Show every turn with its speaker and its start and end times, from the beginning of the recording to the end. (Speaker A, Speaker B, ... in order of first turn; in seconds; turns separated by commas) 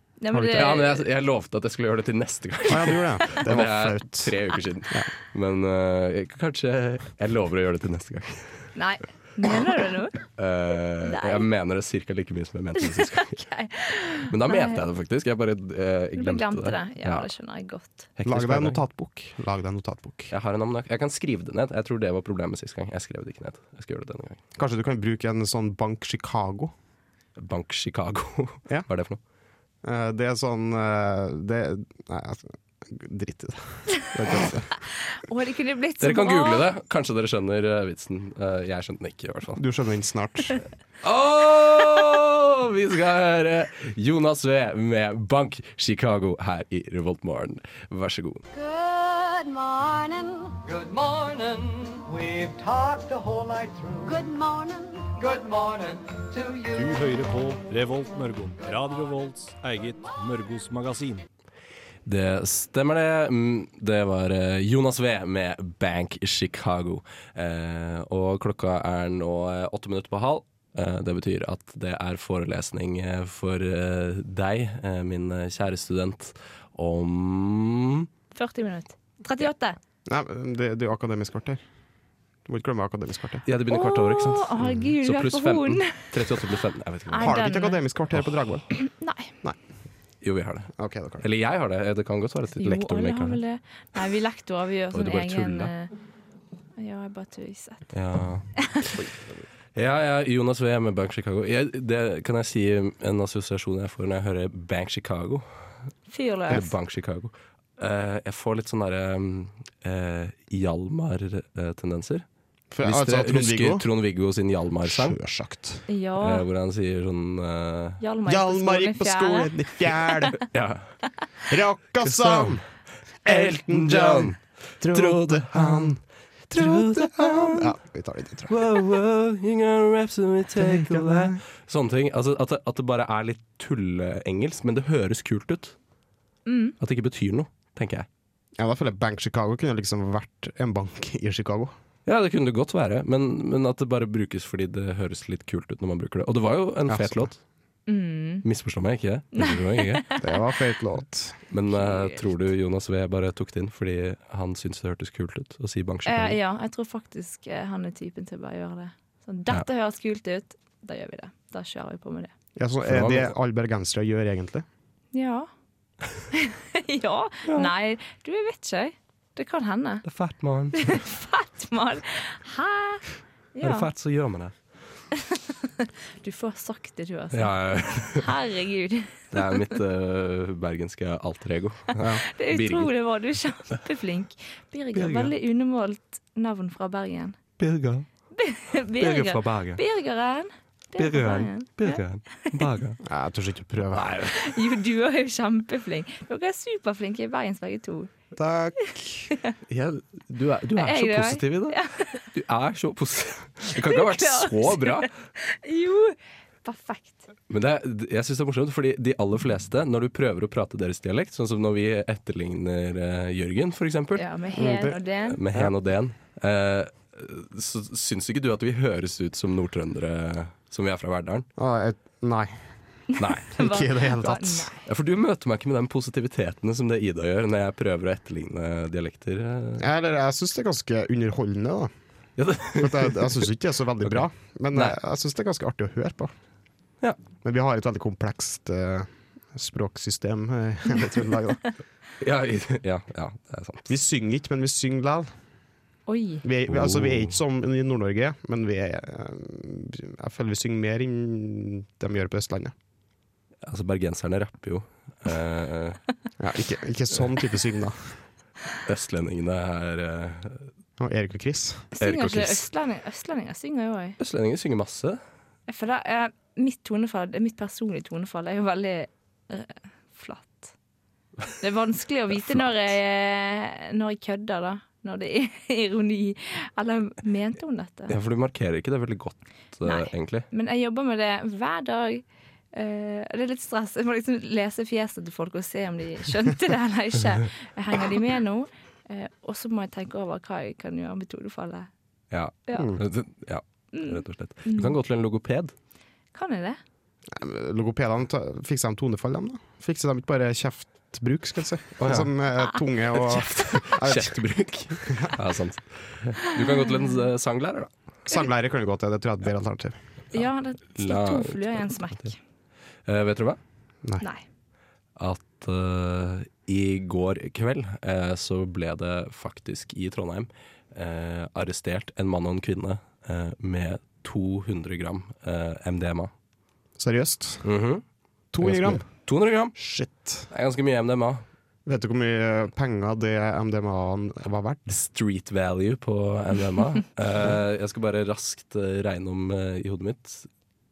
Speaker A: 0.2-1.0, Speaker B: 0.3-0.8, Speaker C: 0.5-8.7, Speaker B: 2.7-4.4, Speaker A: 8.7-10.2, Speaker C: 10.3-13.4, Speaker A: 11.0-11.4, Speaker A: 12.8-14.8, Speaker C: 14.3-17.3, Speaker A: 16.1-18.1, Speaker C: 18.1-18.8, Speaker B: 18.2-20.3, Speaker C: 20.3-24.4, Speaker B: 24.6-26.7, Speaker C: 27.4-29.2, Speaker B: 29.8-34.7, Speaker A: 35.0-36.6, Speaker C: 36.0-39.6, Speaker B: 39.5-40.6, Speaker C: 41.0-48.4, Speaker D: 48.5-50.6, Speaker E: 50.6-54.1, Speaker D: 54.0-55.1, Speaker E: 55.2-57.0, Speaker F: 56.7-61.2, Speaker C: 62.0-78.1, Speaker A: 78.3-79.8, Speaker B: 80.0-81.6, Speaker B: 82.5-83.4, Speaker C: 83.5-87.3, Speaker A: 83.7-86.1, Speaker A: 87.1-87.8, Speaker B: 87.2-88.7, Speaker A: 88.7-89.3, Speaker C: 90.2-93.4, Speaker B: 90.8-91.2, Speaker A: 92.6-95.9, Speaker C: 94.9-95.7, Speaker A: 96.8-97.9, Speaker C: 97.9-99.0, Speaker C: 99.7-105.8, Speaker A: 106.1-106.7, Speaker C: 106.5-112.2, Speaker B: 112.7-113.9, Speaker C: 112.8-115.2, Speaker B: 114.8-115.8, Speaker A: 115.9-116.5, Speaker C: 116.2-118.0, Speaker A: 118.0-120.2, Speaker B: 118.2-120.4, Speaker C: 120.5-120.9, Speaker B: 121.5-122.6, Speaker C: 122.0-122.6, Speaker C: 123.2-126.0, Speaker B: 123.2-128.9, Speaker C: 126.5-127.7, Speaker C: 128.5-135.7, Speaker B: 130.6-131.4, Speaker A: 136.4-136.8, Speaker C: 136.8-138.1, Speaker B: 138.6-141.7, Speaker C: 142.1-147.4, Speaker B: 146.9-147.3, Speaker A: 147.9-148.4, Speaker C: 148.4-150.0, Speaker A: 149.3-150.2, Speaker B: 150.2-151.4, Speaker C: 151.5-156.4, Speaker A: 151.7-152.2, Speaker A: 156.1-162.3, Speaker B: 162.6-164.6, Speaker C: 162.8-163.3, Speaker A: 165.1-165.5, Speaker A: 166.3-170.0, Speaker C: 170.0-171.0, Speaker A: 170.8-173.9, Speaker C: 173.6-174.6, Speaker A: 175.2-179.6, Speaker C: 177.3-178.3, Speaker C: 179.3-182.9, Speaker A: 182.2-187.4, Speaker C: 184.9-185.3, Speaker C: 187.6-188.1, Speaker A: 188.3-192.6, Speaker C: 189.0-189.8, Speaker C: 191.0-193.0, Speaker B: 193.0-194.1, Speaker C: 193.9-194.4, Speaker A: 194.3-198.1, Speaker B: 198.3-199.3, Speaker C: 199.7-205.1, Speaker A: 200.8-202.2, Speaker A: 203.8-207.3, Speaker C: 207.5-214.2, Speaker A: 214.2-215.4, Speaker B: 214.6-215.0, Speaker C: 215.3-221.5, Speaker B: 221.6-222.7, Speaker A: 223.1-224.8, Speaker C: 223.2-223.6, Speaker B: 223.6-224.7, Speaker C: 224.8-229.8, Speaker B: 229.8-231.9, Speaker C: 232.4-233.5, Speaker B: 232.8-236.3, Speaker B: 237.4-241.6, Speaker C: 242.2-243.9, Speaker B: 243.9-245.3, Speaker A: 246.1-246.4, Speaker B: 246.4-252.7, Speaker C: 246.7-247.3, Speaker C: 253.6-256.0, Speaker B: 256.4-258.2, Speaker C: 258.8-260.7, Speaker B: 261.0-261.9, Speaker A: 261.9-264.2, Speaker C: 262.0-262.6, Speaker C: 264.2-265.2, Speaker A: 265.7-270.7, Speaker A: 271.6-278.1, Speaker C: 278.1-280.4, Speaker A: 279.8-291.9, Speaker C: 292.3-295.7, Speaker B: 292.7-293.0, Speaker A: 293.9-294.9, Speaker A: 296.3-296.8, Speaker B: 297.3-304.4, Speaker C: 302.0-302.3, Speaker C: 303.1-307.9, Speaker B: 305.1-305.4, Speaker A: 306.5-307.1, Speaker B: 308.3-310.0, Speaker A: 310.3-312.4, Speaker C: 311.0-312.3, Speaker C: 313.1-313.6, Speaker C: 315.2-326.3, Speaker B: 327.0-327.6, Speaker C: 327.6-328.0, Speaker B: 328.5-329.1, Speaker C: 328.6-329.8, Speaker B: 329.7-330.5, Speaker C: 330.5-331.4, Speaker B: 331.9-334.9, Speaker C: 334.9-340.5